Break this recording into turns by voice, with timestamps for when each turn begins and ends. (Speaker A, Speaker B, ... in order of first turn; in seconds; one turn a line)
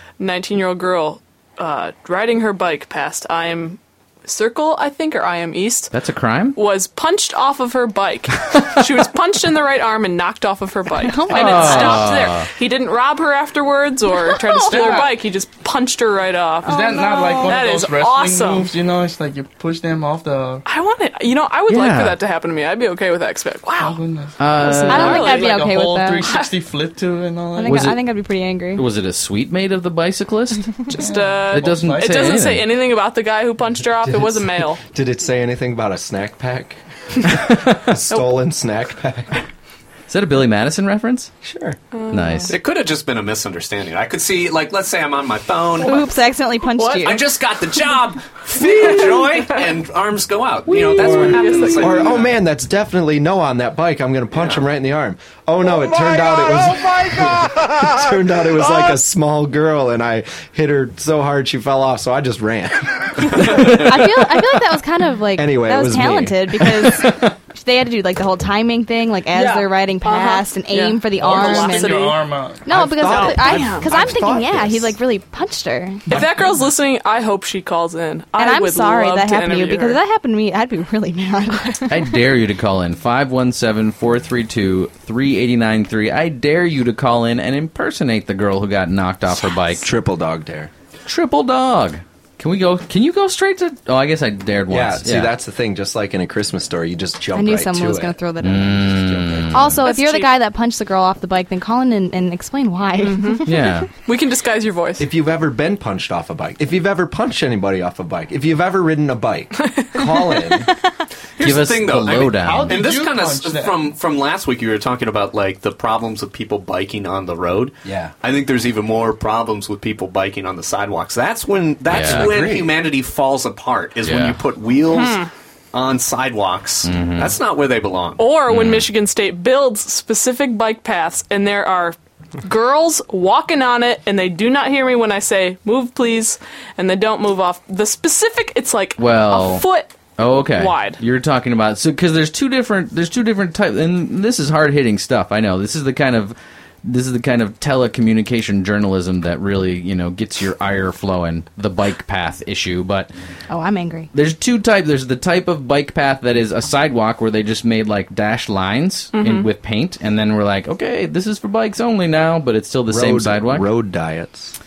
Speaker A: 0.2-5.9
Speaker B: 5.9-6.6
Speaker A: 6.5-18.7
Speaker C: 10.9-12.2
Speaker B: 11.3-12.5
Speaker C: 14.2-15.1
Speaker C: 16.6-17.6
Speaker D: 16.6-20.6
Speaker A: 20.6-24.0
Speaker B: 21.7-22.2
Speaker D: 23.7-27.9
Speaker B: 24.4-25.3
Speaker A: 24.6-25.7
Speaker C: 24.8-26.4
Speaker A: 26.2-26.5
Speaker C: 27.5-28.9
Speaker B: 27.7-28.0
Speaker B: 28.7-30.7
Speaker A: 30.9-34.8
Speaker D: 30.9-32.3
Speaker B: 31.5-32.7
Speaker E: 33.9-36.8
Speaker E: 37.4-39.4
Speaker B: 40.1-41.3
Speaker E: 41.4-41.8
Speaker A: 41.9-42.5
Speaker B: 42.1-42.5
Speaker F: 42.5-46.0
Speaker C: 45.8-47.3
Speaker A: 46.8-47.2
Speaker F: 47.0-52.4
Speaker A: 48.5-49.6
Speaker A: 50.7-52.2
Speaker E: 51.0-64.6
Speaker F: 54.3-54.6
Speaker C: 63.4-76.2
Speaker E: 65.3-67.0
Speaker A: 69.3-72.2
Speaker D: 71.2-72.7
Speaker E: 72.7-75.0
Speaker A: 73.0-73.9
Speaker A: 76.1-80.0
Speaker E: 76.1-76.4
Speaker C: 78.4-82.1
Speaker B: 81.9-89.8
Speaker E: 89.8-90.7
Speaker B: 91.1-95.3
Speaker E: 94.7-99.8
Speaker C: 97.3-103.7
Speaker B: 98.4-99.7
Speaker A: 99.8-100.4
Speaker A: 103.0-103.4
Speaker B: 103.4-103.9
Speaker A: 104.1-105.1
Speaker E: 105.0-110.7
Speaker A: 109.6-110.7
Speaker F: 111.4-128.3
Speaker B: 111.4-112.8
Speaker D: 112.4-113.9
Speaker E: 117.8-118.1
Speaker B: 121.9-122.3
Speaker E: 121.9-122.8
Speaker B: 124.0-124.4
Speaker A: 124.9-125.3
Speaker B: 126.8-127.4
Speaker A: 128.2-141.0
Speaker B: 128.5-128.9
Speaker B: 139.0-153.1
Speaker C: 153.5-154.1
Speaker B: 154.1-163.7
Speaker A: 159.2-159.5
Speaker E: 162.9-164.6